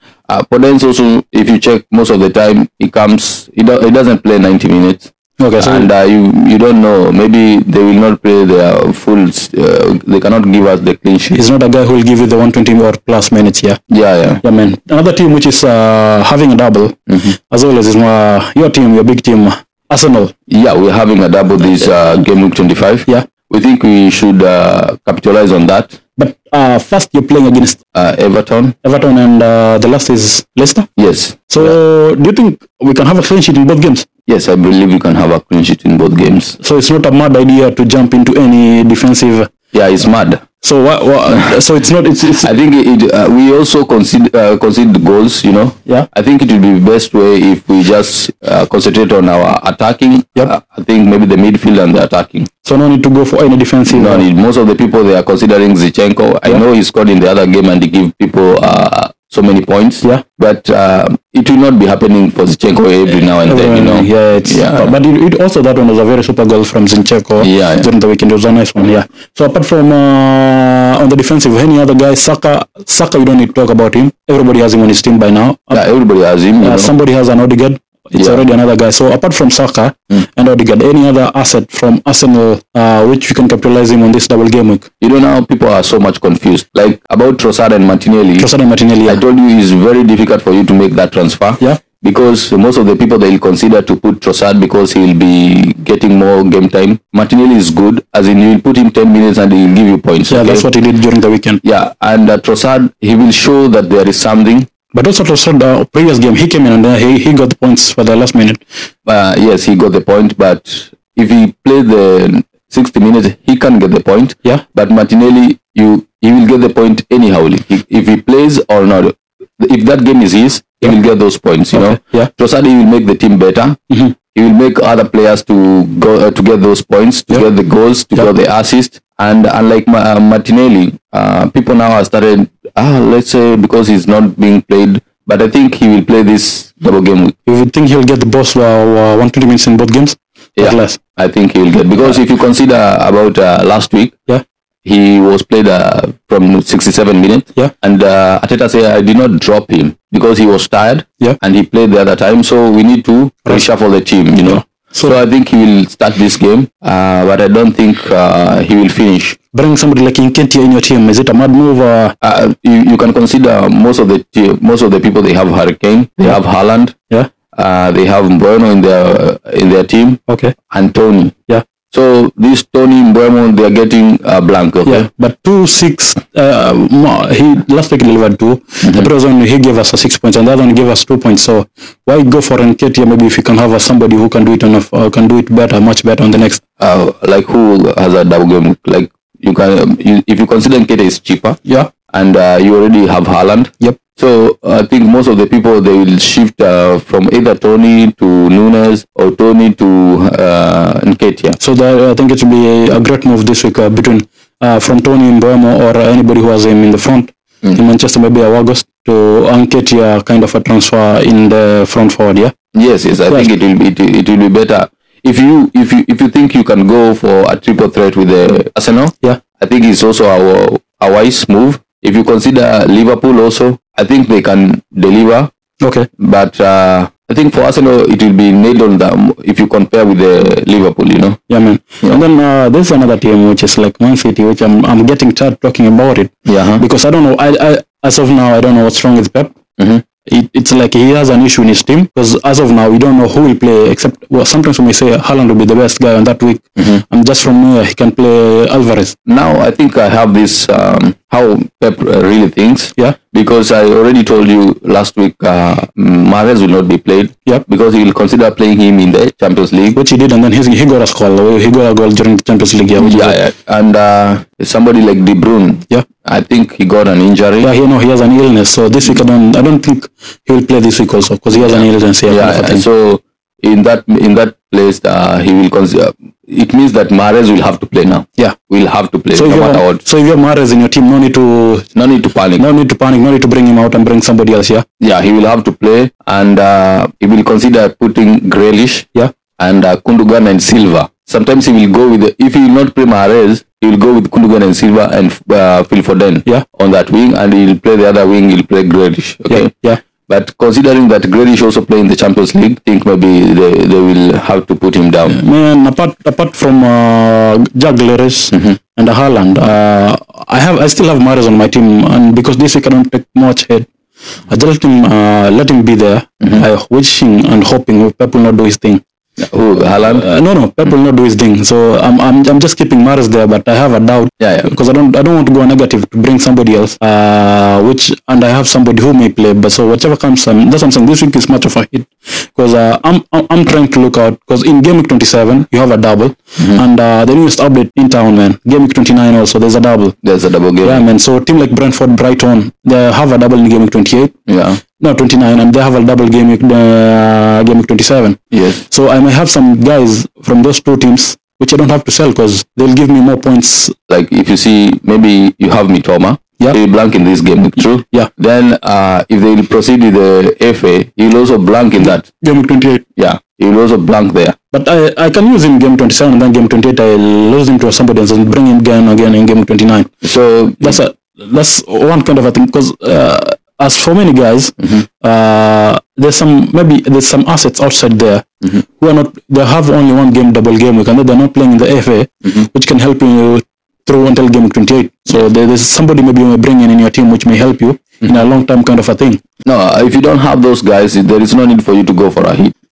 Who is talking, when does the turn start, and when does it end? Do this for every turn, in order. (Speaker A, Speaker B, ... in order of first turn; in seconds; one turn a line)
Speaker A: 0.3-11.4
Speaker B: 5.4-5.9
Speaker B: 11.3-13.8
Speaker A: 13.9-14.4
Speaker B: 14.4-20.3
Speaker A: 17.1-17.3
Speaker A: 20.5-25.9
Speaker B: 26.2-27.8
Speaker A: 27.9-28.7
Speaker B: 28.8-30.9
Speaker A: 31.0-31.8
Speaker B: 31.5-34.0
Speaker A: 34.3-36.6
Speaker B: 36.6-39.5
Speaker A: 39.7-40.4
Speaker B: 40.6-42.5
Speaker A: 42.4-52.5
Speaker B: 52.6-54.2
Speaker A: 53.9-64.9
Speaker B: 63.4-75.8
Speaker A: 67.4-67.9
Speaker A: 75.7-76.9
Speaker B: 76.6-84.9
Speaker A: 78.1-78.4
Speaker A: 85.0-88.5
Speaker B: 88.4-89.2
Speaker A: 89.1-100.6
Speaker B: 100.3-101.6
Speaker A: 101.6-104.7
Speaker B: 104.9-108.6
Speaker A: 109.0-123.8
Speaker B: 121.7-122.3
Speaker A: 124.3-137.3
Speaker B: 137.4-141.0
Speaker A: 140.6-144.2
Speaker A: 144.8-159.4
Speaker B: 154.4-155.2
Speaker B: 159.5-162.1
Speaker A: 162.2-166.9
Speaker A: 167.5-171.3
Speaker B: 170.3-170.5
Speaker A: 171.9-175.1
Speaker B: 174.8-186.6
Speaker A: 178.8-179.1
Speaker A: 186.8-191.6
Speaker A: 192.1-201.6
Speaker B: 201.6-212.5
Speaker A: 212.7-225.5
Speaker B: 225.8-226.1
Speaker A: 226.2-231.4
Speaker B: 231.5-239.5
Speaker A: 236.4-236.8
Speaker A: 239.8-240.0
Speaker B: 240.2-249.1
Speaker A: 249.2-260.0
Speaker B: 259.9-263.4
Speaker A: 263.0-267.7
Speaker B: 267.6-272.8
Speaker A: 271.5-280.0
Speaker B: 279.3-281.9
Speaker A: 281.9-282.6
Speaker B: 282.6-284.8
Speaker A: 285.0-289.1
Speaker A: 289.6-299.7
Speaker B: 299.5-300.0
Speaker A: 300.3-305.4
Speaker B: 305.3-313.9
Speaker B: 314.5-319.0
Speaker A: 319.4-320.2
Speaker B: 320.0-340.1
Speaker A: 324.4-324.7
Speaker A: 340.2-341.0
Speaker B: 340.8-344.3
Speaker A: 344.5-344.8
Speaker B: 345.0-353.9
Speaker A: 348.5-348.8
Speaker A: 354.1-362.3
Speaker B: 362.4-363.0
Speaker A: 363.2-364.6
Speaker B: 364.7-370.1
Speaker A: 370.2-371.0
Speaker B: 370.8-389.4
Speaker A: 389.6-392.7